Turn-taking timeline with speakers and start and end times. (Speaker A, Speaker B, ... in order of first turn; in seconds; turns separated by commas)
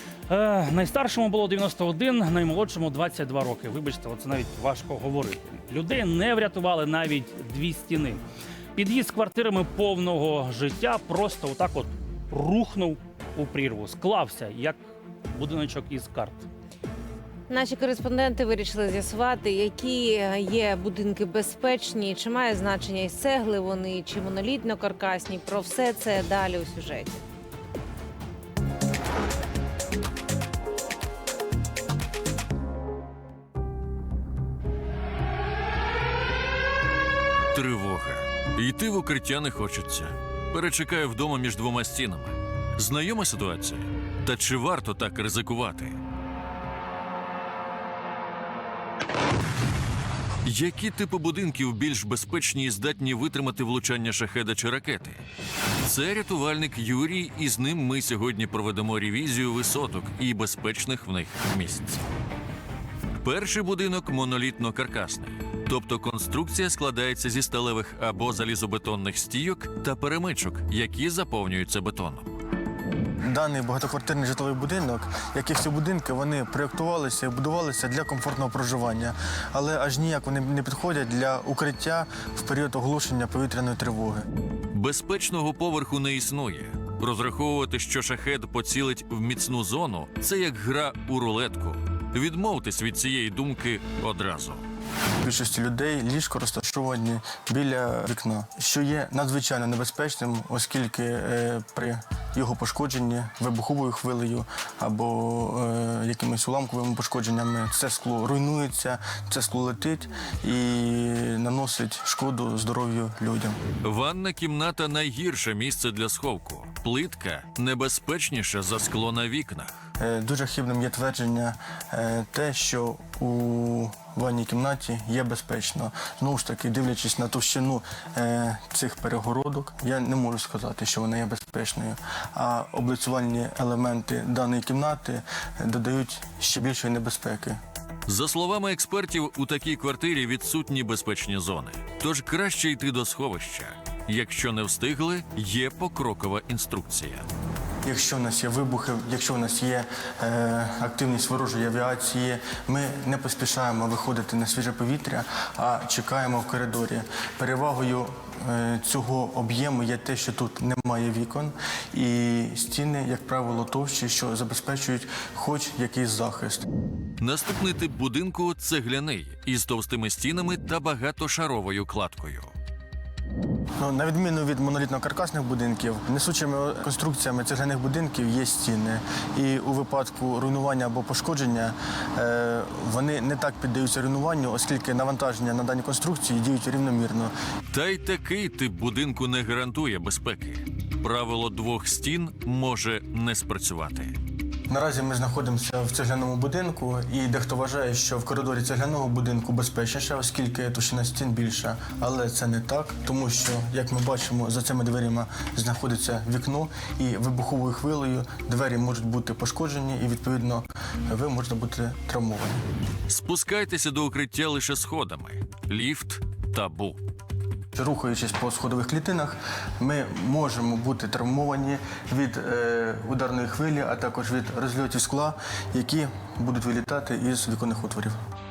Speaker A: 0.3-8.2, Speaker A: 8.7-16.5, Speaker B: 17.5-27.2, Speaker C: 37.5-46.0, Speaker C: 50.4-55.2, Speaker C: 55.8-62.0, Speaker C: 63.2-72.3, Speaker D: 73.2-84.2, Speaker C: 84.7-94.6, Speaker D: 95.2-113.6, Speaker C: 113.8-119.8, Speaker D: 120.0-137.6, Speaker C: 138.1-147.3, Speaker D: 147.8-166.7, Speaker C: 167.2-172.5, Speaker D: 173.8-187.3, Speaker C: 187.7-194.2, Speaker D: 194.7-212.6, Speaker C: 213.1-217.0, Speaker D: 217.7-228.2